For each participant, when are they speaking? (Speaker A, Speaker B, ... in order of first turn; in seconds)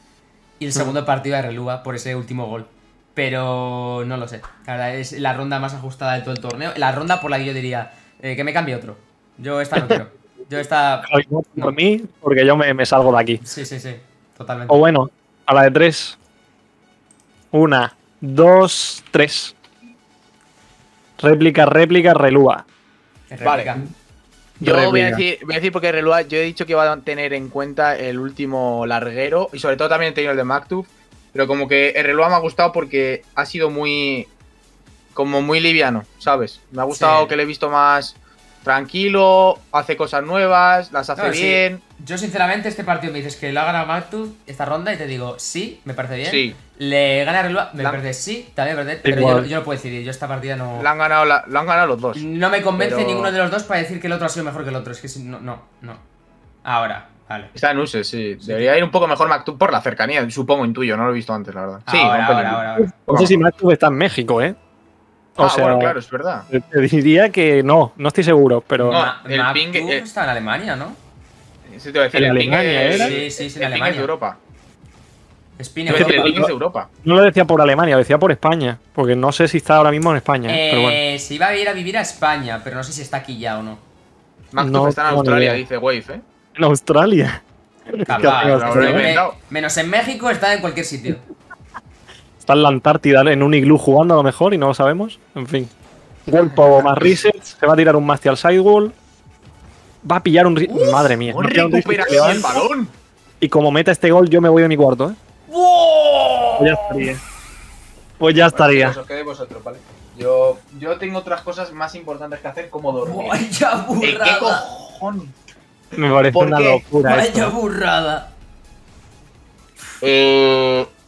Speaker A: 0.6-11.7, 13.4-14.8, 23.3-23.9, 36.9-37.3, 41.2-50.9, 52.2-56.0, 56.6-57.5, 58.4-58.7, 61.9-62.9, 68.8-71.0, 72.9-74.1, 75.6-76.4, 80.5-83.8, 88.1-91.2, 100.7-101.1, 105.5-107.1, 113.0-114.6, 117.0-118.3
Speaker B: 11.1-13.4, 14.7-16.2, 17.5-19.6, 21.2-22.6, 24.6-25.2, 49.0-49.5, 62.8-64.6, 65.4-66.0, 66.5-69.0, 72.1-73.2, 75.9-76.5, 77.0-81.0, 84.6-85.6, 86.5-89.2, 92.4-95.7, 96.3-99.0, 100.0-102.6, 103.4-105.2, 106.6-107.2, 108.2-109.0, 116.0-117.5
Speaker C: 23.4-23.7, 24.6-34.3, 35.1-41.8, 46.2-46.6, 50.8-53.3, 57.5-63.4, 65.4-66.5, 68.9-70.0, 71.7-74.4, 75.9-76.9, 84.5-86.2, 88.1-89.3, 101.3-102.9, 108.5-113.4, 114.0-115.3, 116.3-116.8, 120.0-120.9